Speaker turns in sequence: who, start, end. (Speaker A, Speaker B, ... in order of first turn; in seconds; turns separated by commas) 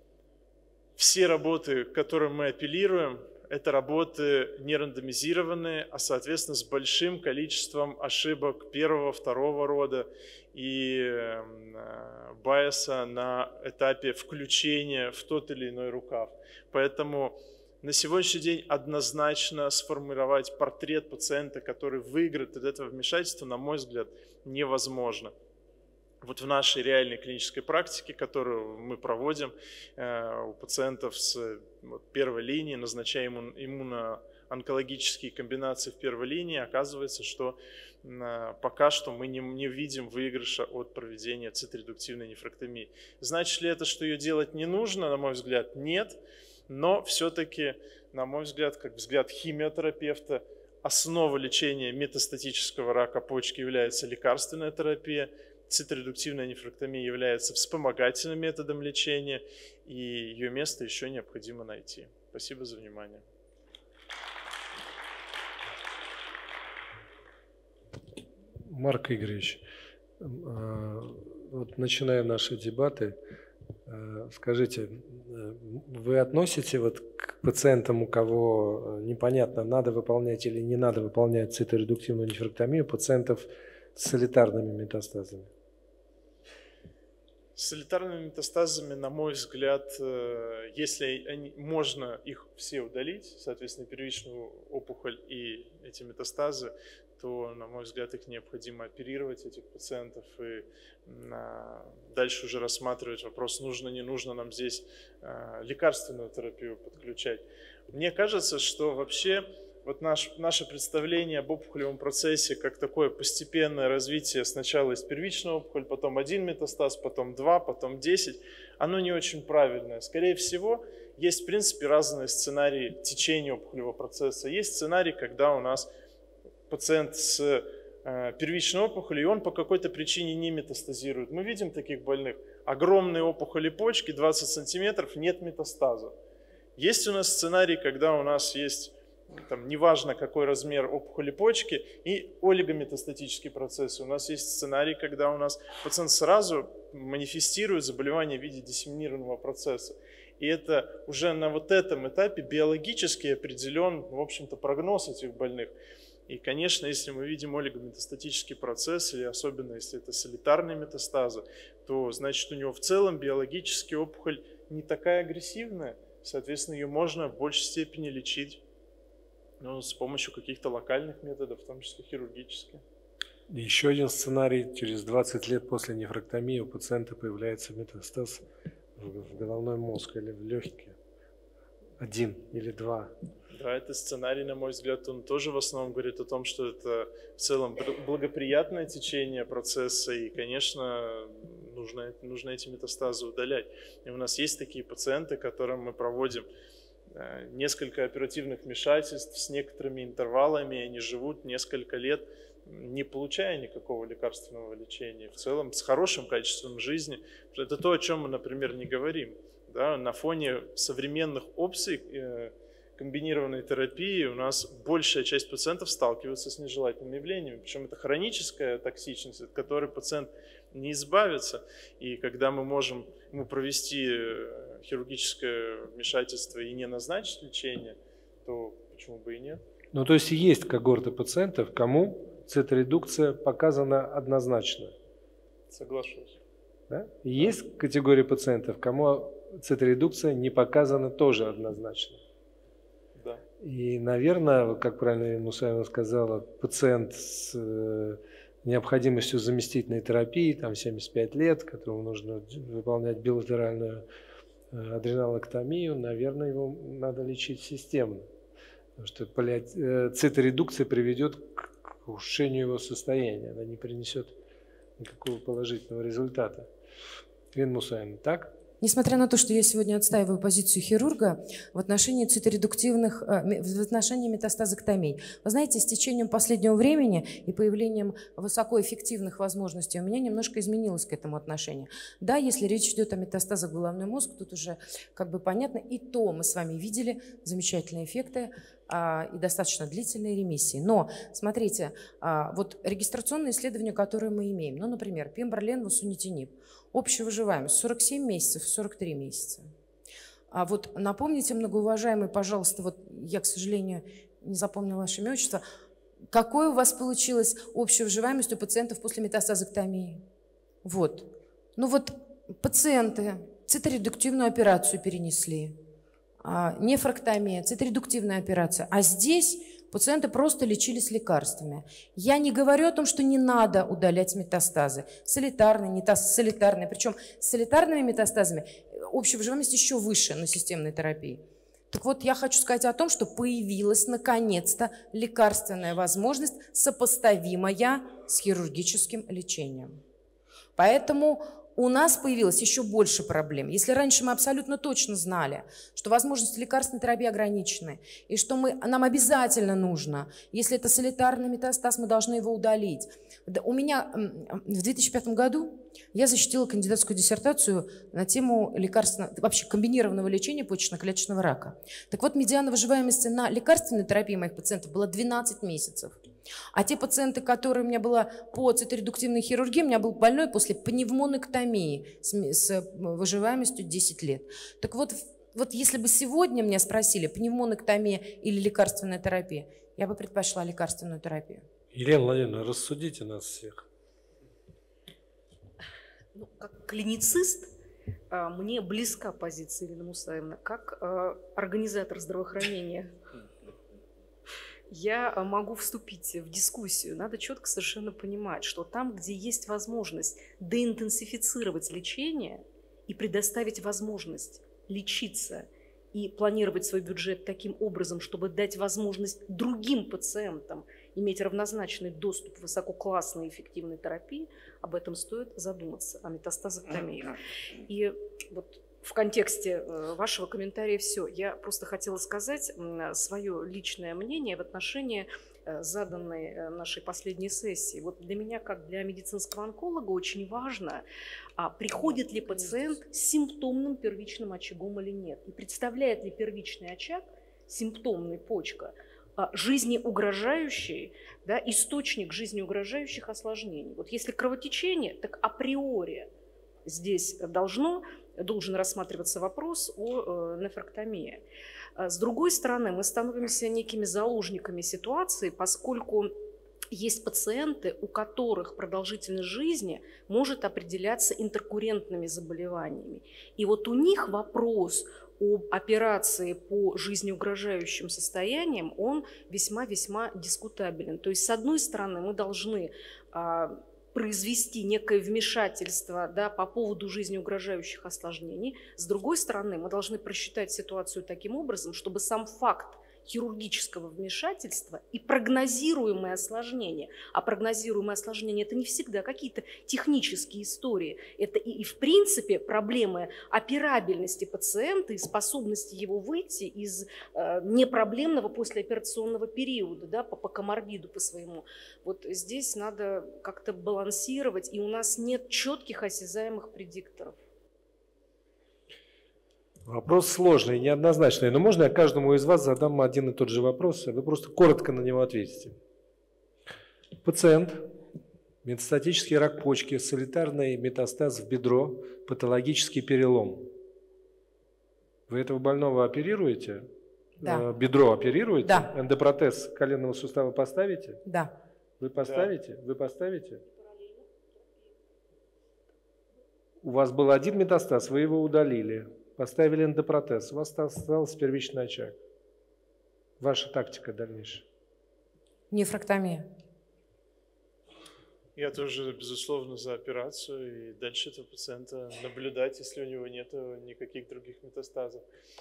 Speaker A: 1.0-25.3, Speaker A: 26.2-63.2, Speaker B: 68.7-69.6, Speaker B: 70.2-73.2, Speaker B: 73.9-85.5, Speaker A: 87.6-125.9, Speaker A: 126.7-136.2, Speaker A: 136.8-155.7, Speaker A: 156.3-168.6, Speaker A: 169.6-172.8, Speaker B: 173.5-178.4, Speaker B: 179.0-181.0, Speaker B: 182.0-183.1, Speaker A: 183.5-196.5, Speaker A: 197.1-229.6, Speaker B: 229.9-234.9, Speaker A: 235.7-236.4, Speaker B: 236.9-242.2, Speaker A: 243.2-243.4, Speaker B: 243.6-254.1, Speaker B: 254.7-258.2, Speaker B: 259.0-264.4, Speaker B: 265.0-266.7, Speaker B: 267.5-268.6, Speaker C: 268.8-299.7, Speaker C: 300.5-305.6, Speaker C: 306.3-310.2, Speaker C: 310.8-315.8, Speaker C: 316.4-331.4, Speaker C: 331.9-340.0, Speaker C: 340.8-366.2, Speaker C: 366.7-381.7, Speaker B: 381.9-383.9, Speaker D: 386.3-387.7, Speaker D: 388.3-393.1, Speaker D: 394.9-431.1, Speaker D: 431.6-446.3, Speaker D: 446.9-451.4, Speaker D: 452.0-456.3, Speaker D: 456.9-507.4, Speaker B: 509.9-515.8, Speaker B: 517.2-517.9, Speaker B: 518.6-523.8, Speaker B: 525.3-526.9, Speaker B: 527.4-531.2, Speaker C: 531.3-531.5, Speaker B: 532.0-533.6, Speaker A: 532.2-532.5, Speaker B: 536.8-542.2, Speaker B: 543.4-544.6, Speaker C: 545.7-546.5, Speaker A: 548.6-555.2